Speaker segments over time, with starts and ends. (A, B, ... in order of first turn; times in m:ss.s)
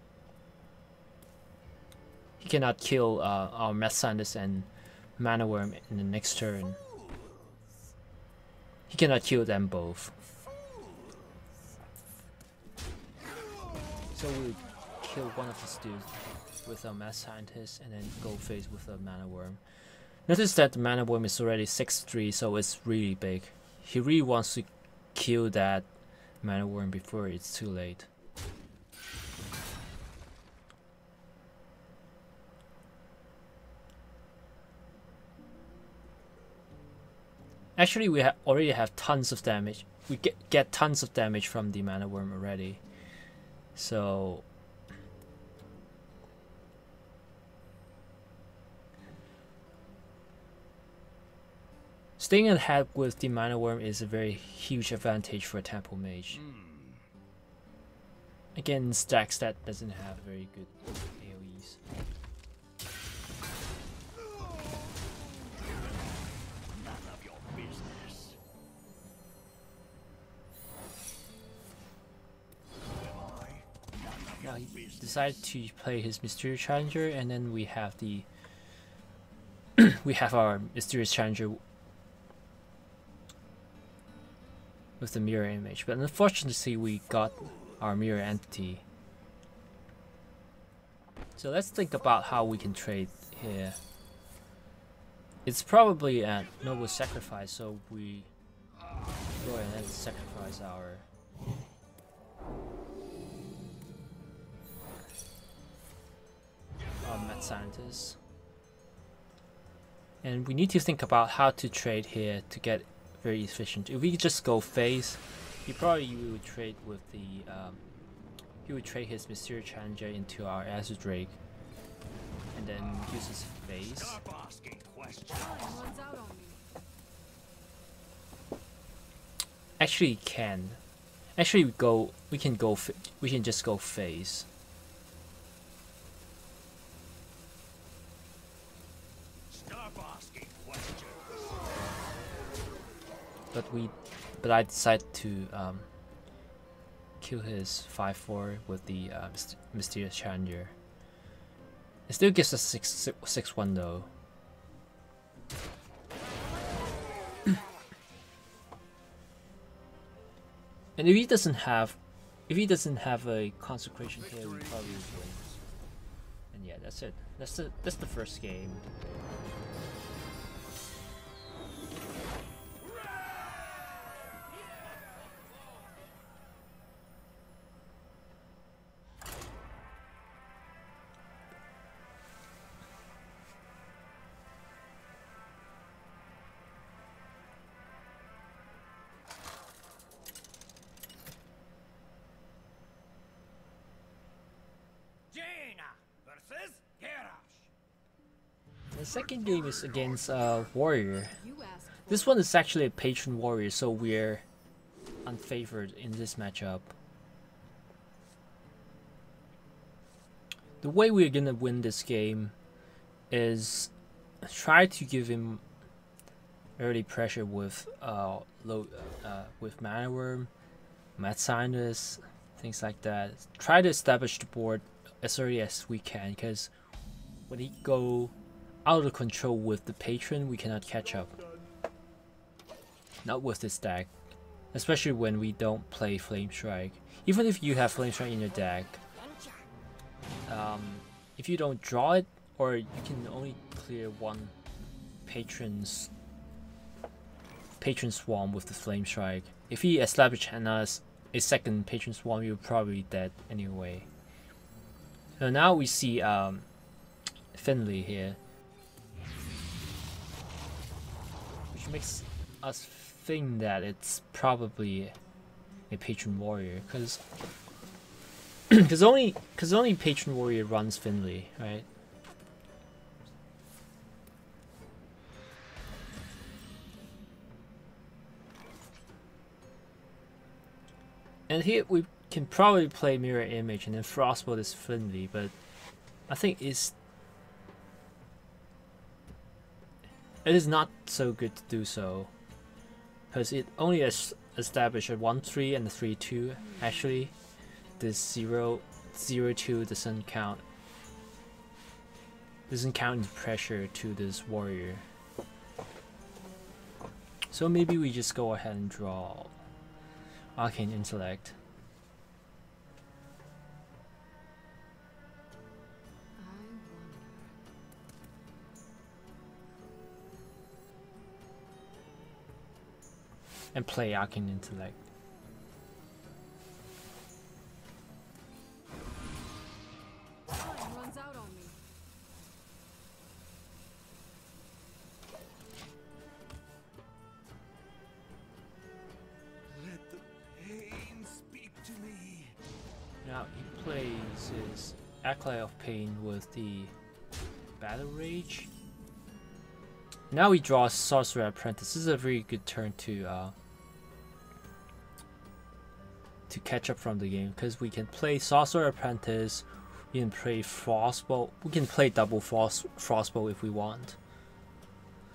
0:02.4-0:06.8 A
0:08.9-0:10.1 A
0:14.1-0:19.6 A
0:20.3-0:25.9 A
0:26.4-0:28.1 A
0:37.8-0:42.8 A
0:43.8-0:44.4 A
0:52.2-0:56.4 A
0:56.3-0:57.0 B
0:58.6-1:01.8 A
1:04.3-1:08.4 B
1:12.8-1:15.4 B
1:14.4-1:18.3 A
1:19.8-1:21.6 A
1:25.0-1:28.8 A
1:31.4-1:33.8 A
1:35.4-1:38.3 A
1:39.4-1:41.1 A
1:47.0-1:48.2 A
1:50.2-1:57.8 A
1:58.6-2:01.4 A
2:02.5-2:04.2 A
2:02.8-2:05.9 B
2:05.3-2:06.6 C
2:09.8-2:10.8 A
2:11.4-2:14.5 A
2:19.5-2:21.8 B
2:23.5-2:25.9 A
2:27.2-2:30.7 A
2:32.1-2:34.1 A
2:41.0-2:42.0 A
2:42.5-2:45.4 A
2:44.2-2:45.6 B
2:46.5-2:48.9 A
3:15.3-3:17.7 B
3:18.9-3:21.4 A
3:21.2-3:22.4 C
3:22.1-3:24.4 A
3:25.2-3:26.9 A
3:30.8-3:32.5 A
3:33.3-3:33.9 A
3:34.4-3:35.6 A
3:36.8-3:40.5 A
3:41.2-3:46.7 A
3:47.5-3:48.3 A
3:48.8-3:51.4 A
3:53.2-3:54.1 A
3:54.7-3:59.0 A
4:00.5-4:04.5 A
4:05.2-4:06.1 A
4:07.8-4:14.1 A
4:15.4-4:16.7 A
4:17.5-4:18.4 A
4:21.7-4:25.2 A
4:25.9-4:27.2 A
4:28.7-4:31.9 A
4:41.5-4:45.5 A
4:46.3-4:47.0 A
4:50.4-4:52.3 A
4:53.3-4:57.3 A
4:56.6-4:57.0 C
4:58.0-5:00.6 A
5:02.7-5:05.0 A
5:07.5-5:09.5 A
5:10.6-5:11.6 A
5:16.4-5:17.5 C
5:23.7-5:25.0 A
5:30.5-5:31.8 C
5:39.7-5:42.5 B
5:43.2-5:46.9 A
5:47.8-5:48.7 A
5:50.3-5:53.5 A
5:56.5-6:04.2 A